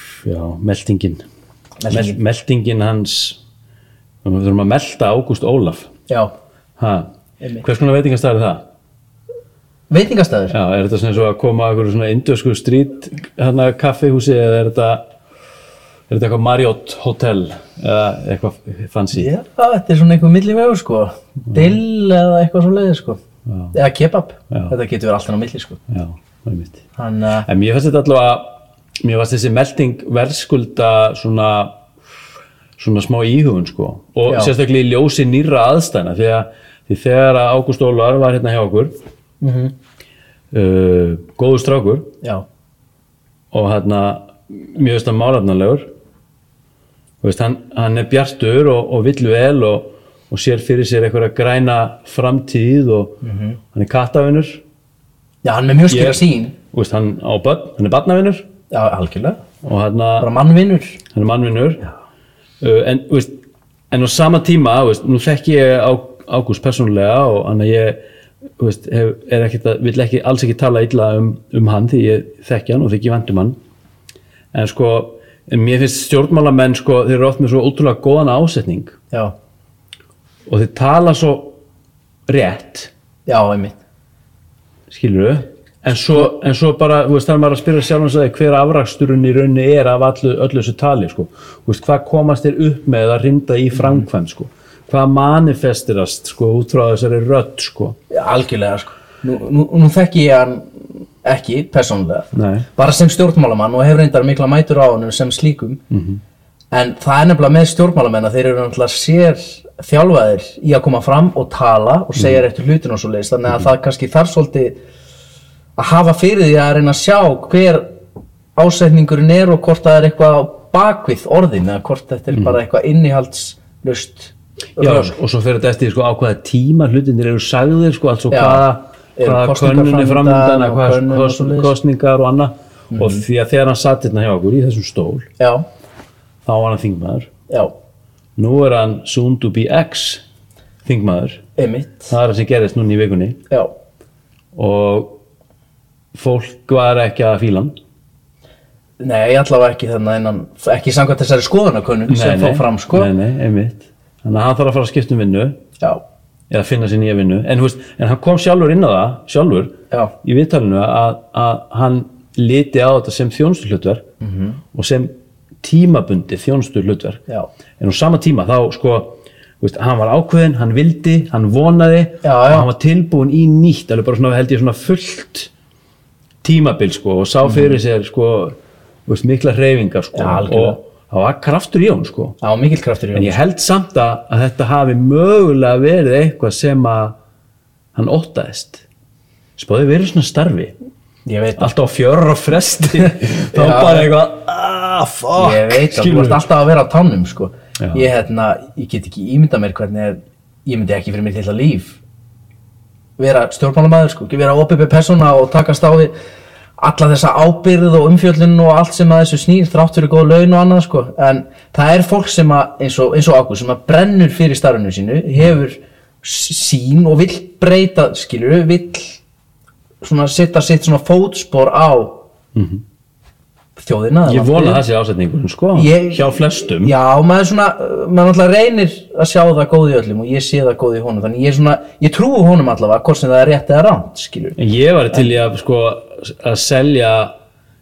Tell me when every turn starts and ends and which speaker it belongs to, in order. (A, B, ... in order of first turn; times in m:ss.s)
0:00.2-0:01.2 A
0:01.8-0:02.2 B
0:01.9-0:03.4 A
0:04.2-0:05.9 A
0:06.1-0:06.3 B
0:06.8-0:08.7 A
0:09.9-0:10.6 B
0:10.5-0:15.0 A
0:16.1-0:19.3 A
0:19.1-0:23.2 B
0:21.5-0:21.8 A
0:23.5-0:23.8 A
0:23.7-0:25.8 B
0:25.9-0:26.8 A
0:27.0-0:27.5 B
0:27.5-0:31.8 A
0:32.8-0:38.9 A
0:34.3-0:34.5 B
0:39.4-0:39.7 B
0:40.5-0:42.1 A
0:43.5-0:45.9 A
0:47.2-0:53.2 A
0:53.2-0:53.6 B
0:53.7-0:54.6 A
0:55.4-0:56.6 B
0:55.9-0:56.2 A
0:56.7-0:58.5 A
0:58.7-0:59.4 B
0:59.6-1:00.3 A
1:00.2-1:01.0 B
1:01.1-1:01.9 A
1:02.6-1:08.0 A
1:08.6-1:13.6 A
1:14.5-1:19.0 A
1:20.5-1:21.6 A
1:22.3-1:22.9 A
1:23.3-1:23.8 B
1:24.9-1:38.0 A
1:38.1-1:45.8 B
1:42.3-1:42.7 A
1:45.9-1:46.2 A
1:46.7-1:54.8 B
1:55.8-1:57.9 B
1:58.6-2:05.1 B
2:04.8-2:15.3 A
2:08.3-2:11.7 B
2:12.9-2:13.2 B
2:15.4-2:15.6 B
2:16.5-2:17.3 A
2:18.4-2:20.2 A
2:20.8-2:21.4 A
2:21.6-2:22.1 B
2:22.1-2:23.4 A
2:24.6-2:25.2 A
2:26.2-2:27.8 A
2:29.0-2:33.1 B
2:32.1-2:35.6 A
2:36.5-2:44.0 A
2:44.2-2:44.6 B
2:44.7-2:47.2 A
2:47.8-2:55.5 A
2:52.2-2:52.7 B
2:56.4-3:02.4 A
2:57.4-2:57.8 B
3:00.1-3:00.8 B
3:02.4-3:03.4 B
3:03.1-3:07.2 A
3:08.0-3:08.8 A
3:09.6-3:10.8 A
3:11.3-3:11.7 B
3:11.6-3:16.5 A
3:13.5-3:14.1 B
3:15.4-3:22.0 B
3:23.2-3:26.1 B
3:26.8-3:39.2 B
3:40.0-3:42.2 B
3:42.6-3:42.8 A
3:43.8-3:44.8 B
3:44.3-3:47.0 A
3:45.8-3:54.6 B
3:54.6-3:57.3 A